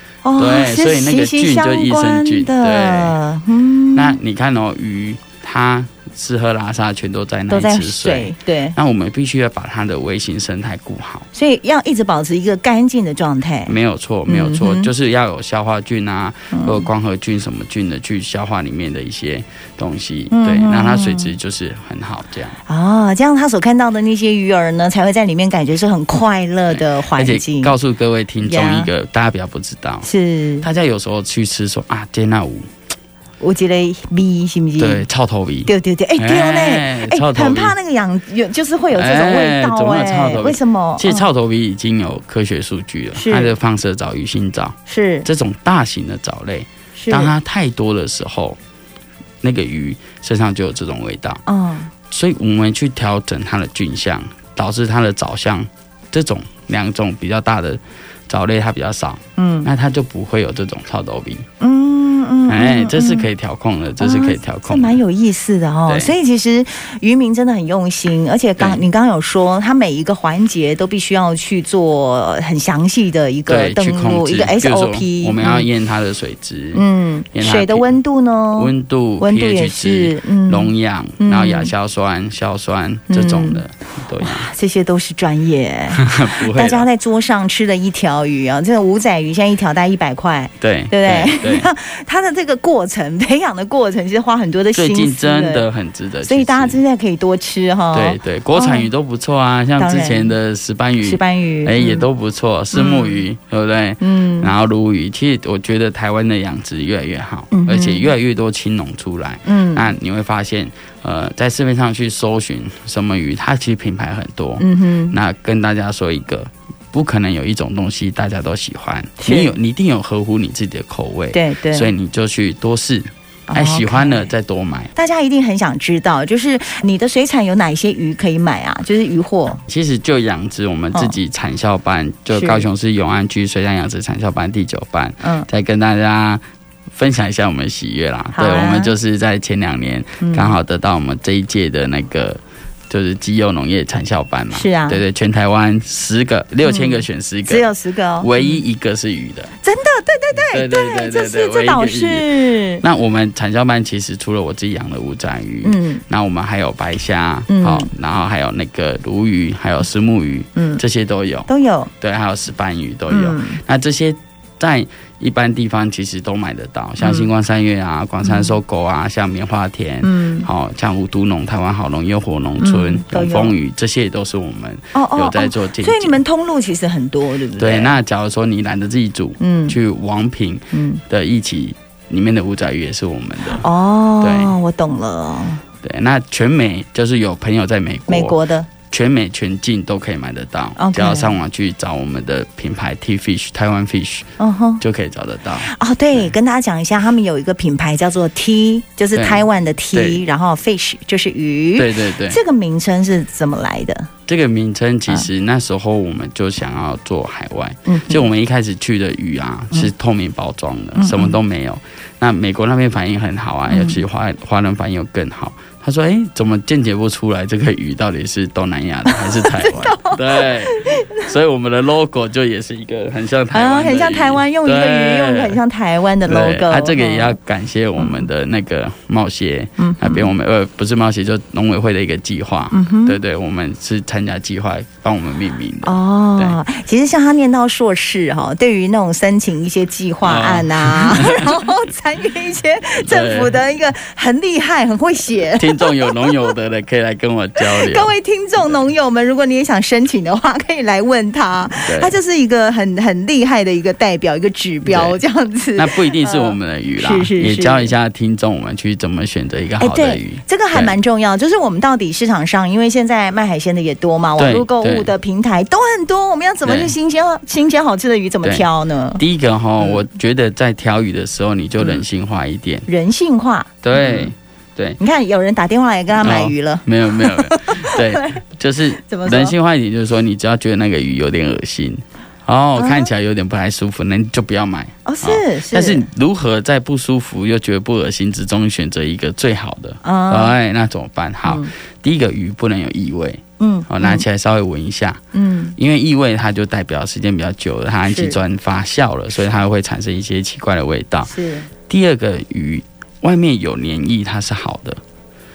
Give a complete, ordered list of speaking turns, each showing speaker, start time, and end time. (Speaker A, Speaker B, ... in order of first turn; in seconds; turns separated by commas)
Speaker A: 0.2-4.2, Speaker B: 0.4-3.2, Speaker B: 3.9-11.3, Speaker A: 7.5-8.8, Speaker A: 11.3-13.7, Speaker B: 13.7-22.6, Speaker A: 14.3-14.9, Speaker A: 16.5-16.9, Speaker A: 20.3-21.3, Speaker A: 22.7-27.7, Speaker B: 26.7-30.1, Speaker A: 28.4-28.9, Speaker A: 30.0-30.6, Speaker B: 30.6-32.7, Speaker A: 33.4-35.0, Speaker B: 34.8-37.8, Speaker A: 35.7-41.2, Speaker B: 38.9-48.6, Speaker A: 43.1-43.5, Speaker A: 44.9-45.3, Speaker A: 47.0-47.3, Speaker B: 49.4-51.4, Speaker A: 51.5-51.9, Speaker B: 52.1-61.5, Speaker A: 59.4-59.7, Speaker A: 61.6-63.3, Speaker B: 62.5-65.0, Speaker A: 64.0-75.7, Speaker B: 65.9-66.1, Speaker B: 68.6-68.8, Speaker B: 73.5-78.0, Speaker A: 76.7-81.7, Speaker B: 78.5-84.5, Speaker A: 83.1-83.6, Speaker A: 84.2-95.7, Speaker B: 85.9-86.9, Speaker B: 90.6-91.7, Speaker B: 94.7-96.8, Speaker A: 96.2-98.9, Speaker B: 97.9-124.9, Speaker A: 99.8-100.3, Speaker A: 101.0-102.0, Speaker A: 102.7-103.2, Speaker A: 104.0-104.5, Speaker A: 107.5-108.1, Speaker A: 109.5-109.9, Speaker A: 114.6-115.2, Speaker A: 119.2-119.5, Speaker A: 121.3-121.9, Speaker A: 123.5-124.3, Speaker A: 124.9-129.6, Speaker B: 129.7-147.7, Speaker A: 132.3-132.6, Speaker A: 135.2-135.5, Speaker A: 138.3-138.9, Speaker A: 140.2-140.6, Speaker A: 144.5-145.0, Speaker A: 146.6-148.6, Speaker B: 148.2-149.5, Speaker A: 149.6-152.8, Speaker B: 150.3-152.3, Speaker B: 152.8-161.5, Speaker A: 155.6-156.0, Speaker A: 157.5-157.9, Speaker A: 160.6-160.8, Speaker A: 161.5-161.9, Speaker B: 162.0-176.2, Speaker A: 163.1-163.6, Speaker A: 167.0-167.3, Speaker A: 168.2-168.6, Speaker A: 170.0-170.5, Speaker A: 172.6-173.5, Speaker A: 174.9-177.9, Speaker B: 177.6-183.7, Speaker A: 179.4-179.8, Speaker A: 180.7-181.0, Speaker A: 183.5-185.6, Speaker B: 184.2-184.5, Speaker B: 185.8-194.3, Speaker A: 188.1-188.7, Speaker A: 190.8-191.3, Speaker A: 194.4-194.8, Speaker B: 194.8-196.3, Speaker A: 195.6-204.1, Speaker B: 199.1-200.2, Speaker B: 201.8-202.4, Speaker B: 204.3-225.6, Speaker A: 207.9-208.2, Speaker A: 210.9-211.4, Speaker A: 213.7-214.0, Speaker A: 219.1-221.3, Speaker A: 223.5-227.3, Speaker B: 226.2-236.6, Speaker A: 228.0-228.2, Speaker A: 229.8-230.3, Speaker A: 232.7-233.2, Speaker A: 235.8-246.5, Speaker B: 240.2-241.7, Speaker B: 243.0-243.6, Speaker B: 245.6-248.1, Speaker A: 247.6-257.9, Speaker B: 251.8-252.1, Speaker B: 254.8-255.2, Speaker B: 255.8-260.9, Speaker A: 259.8-269.2, Speaker B: 264.4-265.1, Speaker B: 266.6-266.9, Speaker B: 269.2-272.9, Speaker A: 272.9-274.3, Speaker B: 273.8-275.0, Speaker A: 275.0-278.4, Speaker B: 276.2-295.2, Speaker A: 279.0-279.5, Speaker A: 282.8-283.1, Speaker A: 285.1-286.1, Speaker A: 290.0-290.5, Speaker A: 291.4-291.7, Speaker A: 293.6-294.2, Speaker A: 295.3-295.7, Speaker B: 295.8-301.3, Speaker A: 298.1-298.4, Speaker A: 301.3-301.7, Speaker B: 301.9-305.0